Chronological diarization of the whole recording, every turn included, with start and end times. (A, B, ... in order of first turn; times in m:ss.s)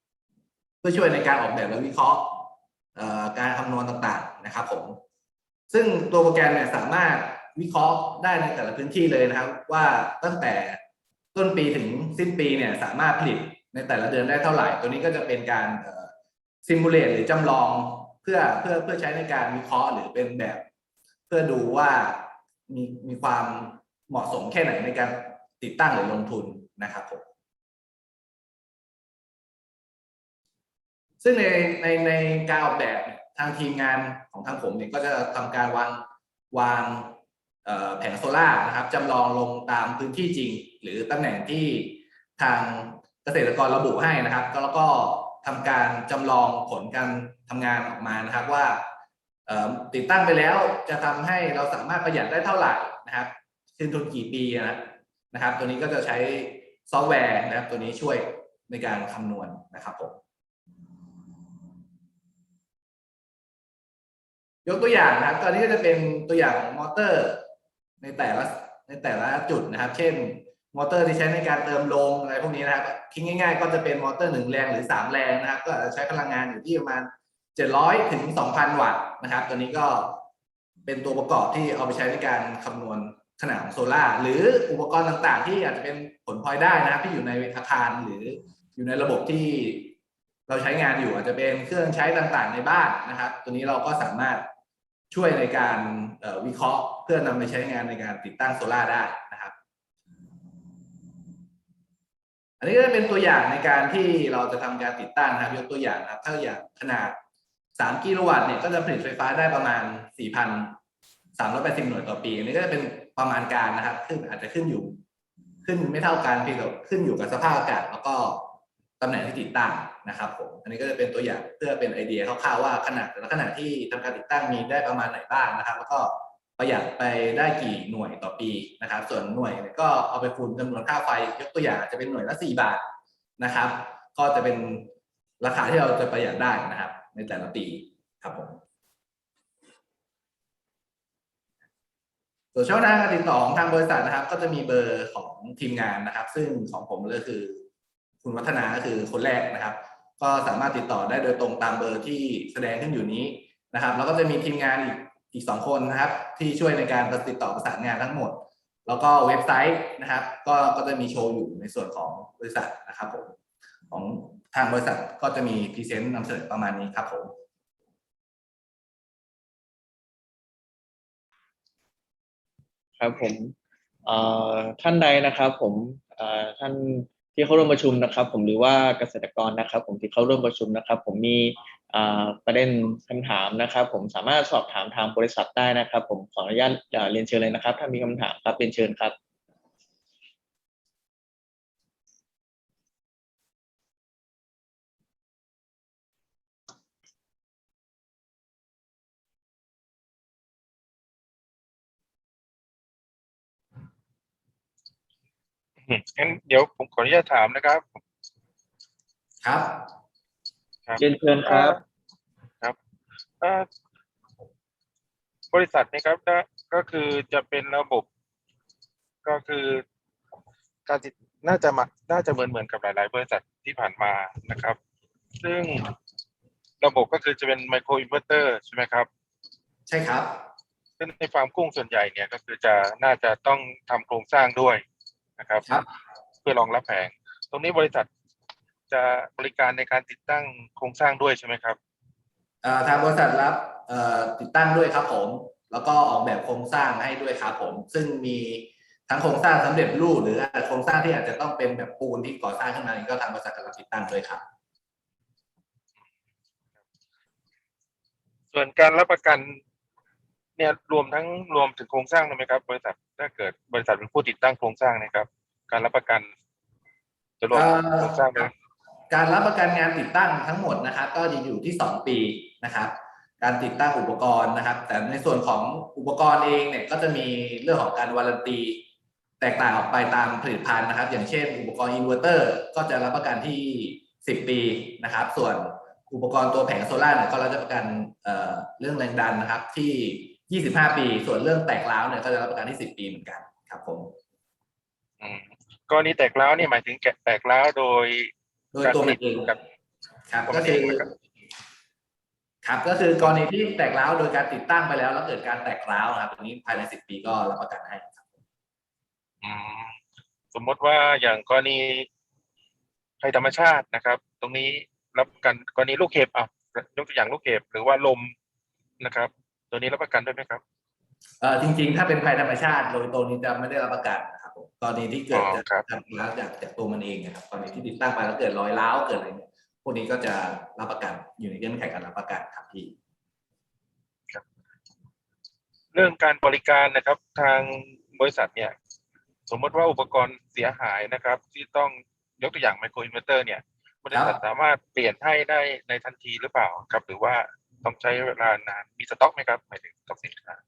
0:00.8-0:05.0 A
0:05.7-0:10.8 A
0:11.3-0:16.1 A
0:16.6-0:20.6 A
0:21.3-0:27.2 A
0:31.2-0:48.8 A
0:49.5-1:00.2 A
1:04.7-1:07.4 A
1:08.0-1:20.2 A
1:20.9-1:30.0 A
1:30.5-1:34.4 A
1:35.1-1:39.5 A
1:42.6-1:47.2 A
1:47.8-1:50.8 A
1:51.4-1:55.0 A
1:55.6-1:58.5 A
1:59.0-2:12.8 A
2:13.4-2:14.9 A
2:15.4-2:18.6 A
2:22.5-2:27.6 A
2:28.2-2:43.3 A
2:43.9-2:47.3 A
2:53.0-2:53.5 B
2:54.0-3:09.2 B
3:25.9-3:28.0 C
3:29.4-3:29.9 A
3:30.9-3:31.8 C
3:31.0-3:31.8 B
3:33.4-3:33.7 C
3:35.5-3:38.0 C
3:39.2-3:39.8 C
3:40.9-3:44.8 C
3:45.4-3:45.9 C
3:46.8-3:49.1 C
3:49.9-3:50.4 A
3:51.0-3:54.8 C
3:55.4-3:55.7 C
3:56.4-3:58.1 C
3:58.9-4:01.8 C
4:02.6-4:14.4 A
4:18.5-4:19.6 C
4:20.6-4:26.3 C
4:27.4-4:28.5 C
4:27.5-4:28.5 A
4:29.1-4:38.8 A
4:39.4-4:54.1 A
4:55.2-4:58.3 C
4:58.7-4:59.5 A
4:58.8-4:59.6 C
5:00.3-5:01.0 A
5:00.5-5:01.1 C
5:02.6-5:08.3 A
5:09.4-5:10.0 C
5:10.5-5:12.1 C
5:13.2-5:18.3 C
5:19.0-5:20.6 C
5:21.4-5:32.9 A
5:25.3-5:25.9 C
5:35.9-5:38.7 C
5:39.5-5:50.6 C
5:44.1-5:44.4 A